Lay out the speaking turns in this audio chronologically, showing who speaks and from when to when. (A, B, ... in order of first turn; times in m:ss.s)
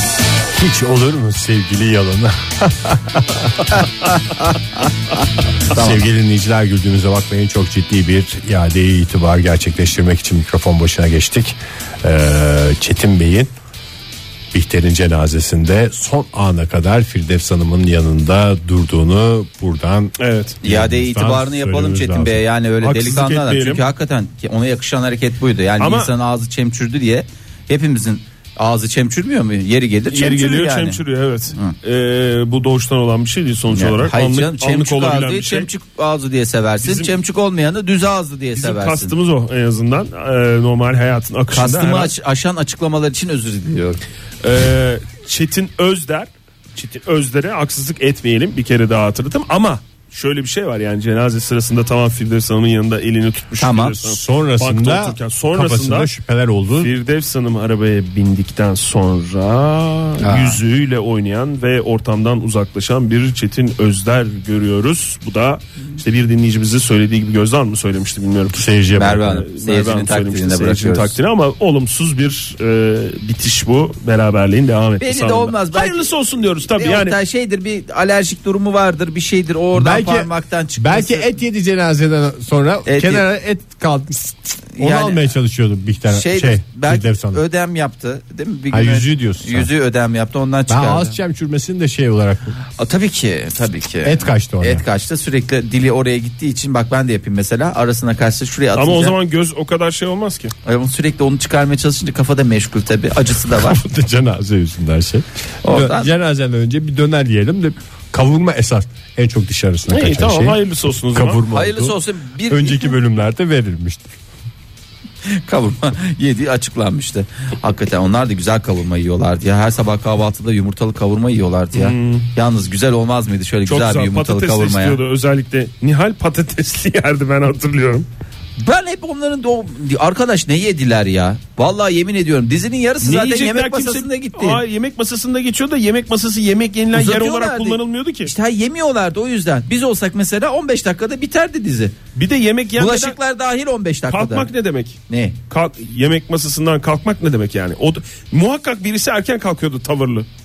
0:00.5-0:04.1 A
0:05.7-0:13.5 A
0:05.7-0:06.0 B
0:14.5-0:22.4 A
0:20.2-0:20.6 C
0:20.6-0:31.0 B
0:22.8-0:23.8 C
0:25.8-0:26.1 C
0:30.1-0:35.7 C
0:33.7-0:39.1 B
0:36.8-0:37.1 C
0:38.5-0:42.1 C
0:41.5-0:44.0 B
0:44.4-0:56.1 C
0:53.6-0:54.0 B
0:54.0-0:56.9 A
0:56.8-1:17.2 C
1:00.2-1:00.6 B
1:08.5-1:09.4 A
1:08.9-1:11.1 B
1:15.0-1:16.1 B
1:16.7-1:21.3 B
1:19.7-1:27.4 A
1:22.8-1:23.2 B
1:24.8-1:25.3 B
1:26.1-1:31.2 B
1:28.7-1:29.7 A
1:30.7-1:32.6 A
1:32.8-1:39.1 B
1:34.0-1:34.8 A
1:38.7-1:40.5 C
1:40.6-1:43.8 B
1:43.5-1:50.6 A
1:45.6-1:46.1 B
1:49.9-1:51.4 C
1:51.1-1:52.0 A
1:51.5-1:52.9 B
1:52.5-1:54.1 A
1:55.3-2:05.0 B
2:01.7-2:02.3 C
2:03.6-2:08.0 C
2:08.6-2:14.6 B
2:13.0-2:18.3 C
2:16.9-2:22.0 B
2:22.1-2:23.2 C
2:22.8-2:24.5 B
2:24.1-2:30.3 C
2:25.1-2:25.4 B